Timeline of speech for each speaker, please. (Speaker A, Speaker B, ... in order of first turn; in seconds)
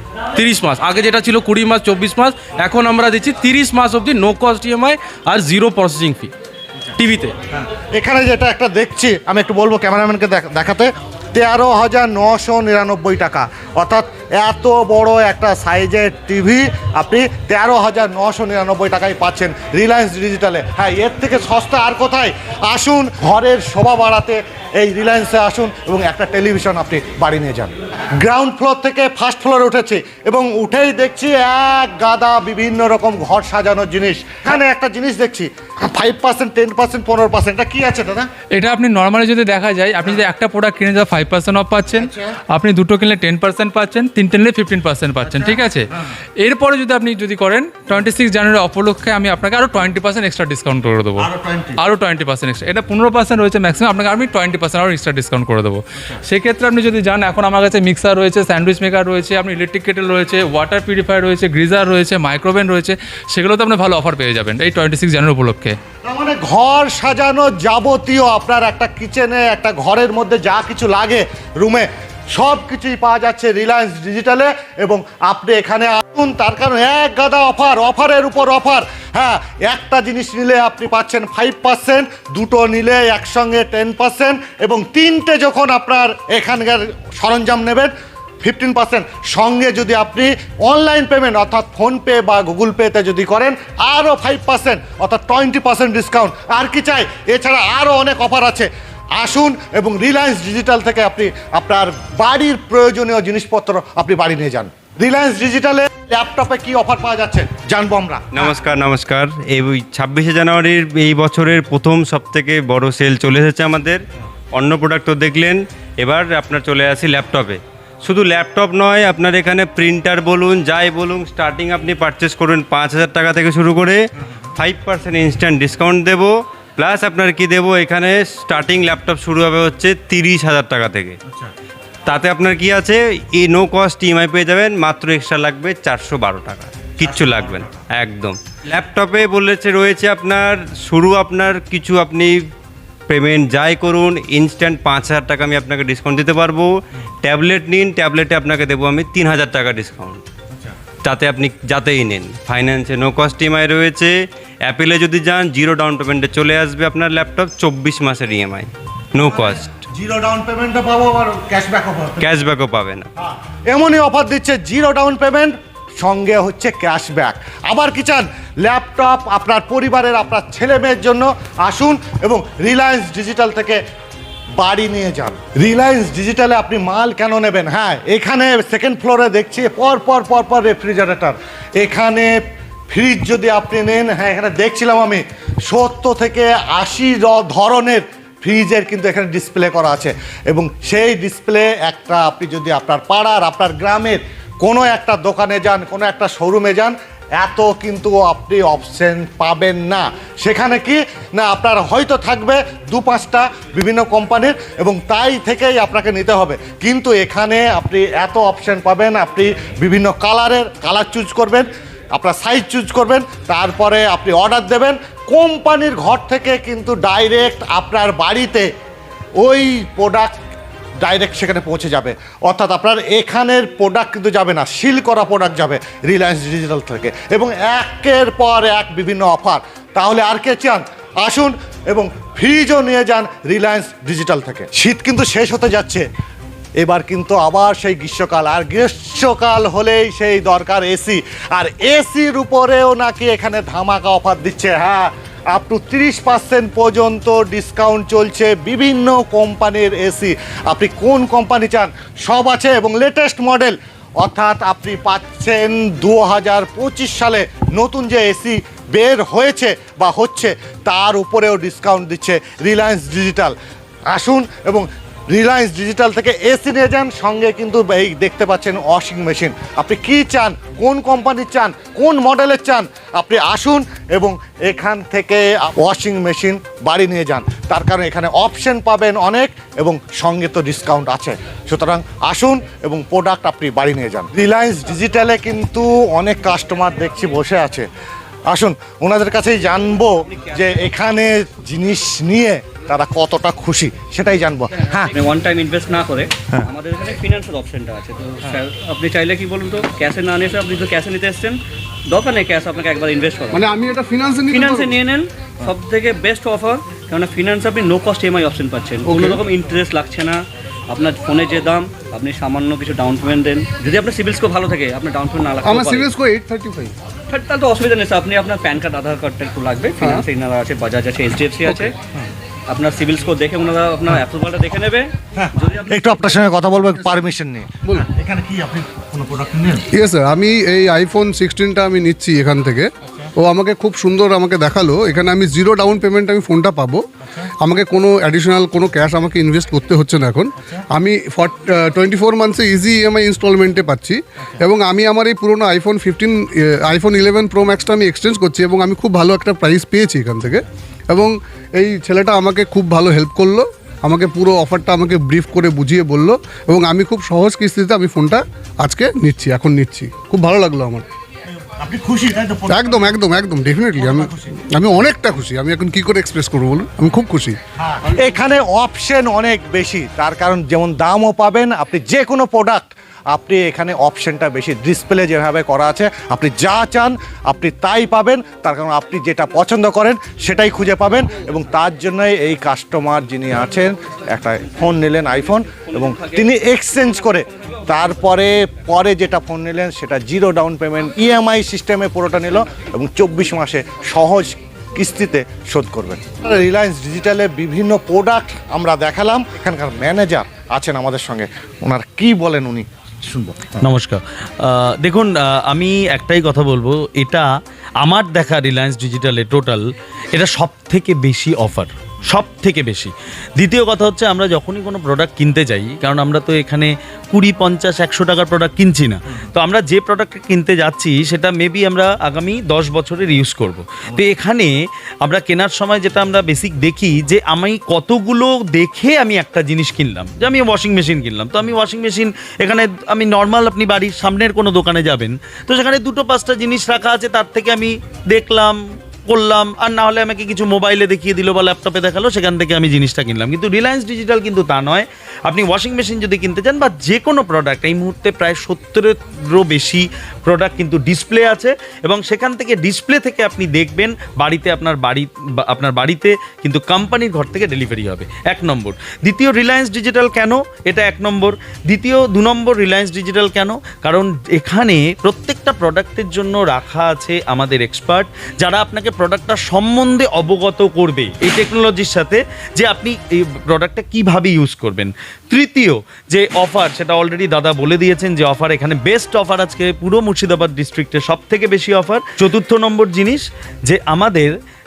Speaker A: 0.3-6.3, 7.0-7.3
Speaker B: 7.5-38.3, 41.9-42.3, 45.2-45.6, 51.2-51.8, 66.0-87.9, 88.4-108.6, 137.0-137.8, 159.2-162.3, 163.2-173.8, 174.6-182.3, 182.9-218.7, 219.4-220.3, 221.0-236.0, 236.8-263.5, 264.1-287.9, 288.5-295.1, 325.3-329.8, 361.6-363.0, 363.9-364.6, 367.8-403.8
Speaker C: 38.5-45.8, 46.4-65.8
Speaker D: 108.3-124.0, 124.5-131.2, 132.1-142.4, 143.1-150.2, 151.0-159.8, 162.2-163.1
Speaker E: 295.1-303.6, 304.5-316.1, 317.3-322.0, 322.7-325.9, 385.9-386.3
Speaker F: 303.5-304.9, 309.0-309.4, 315.6-316.9, 329.9-337.0, 337.6-361.0, 362.7-367.6
Speaker G: 403.8-407.5, 408.0-424.7, 425.2-438.8, 439.3-484.5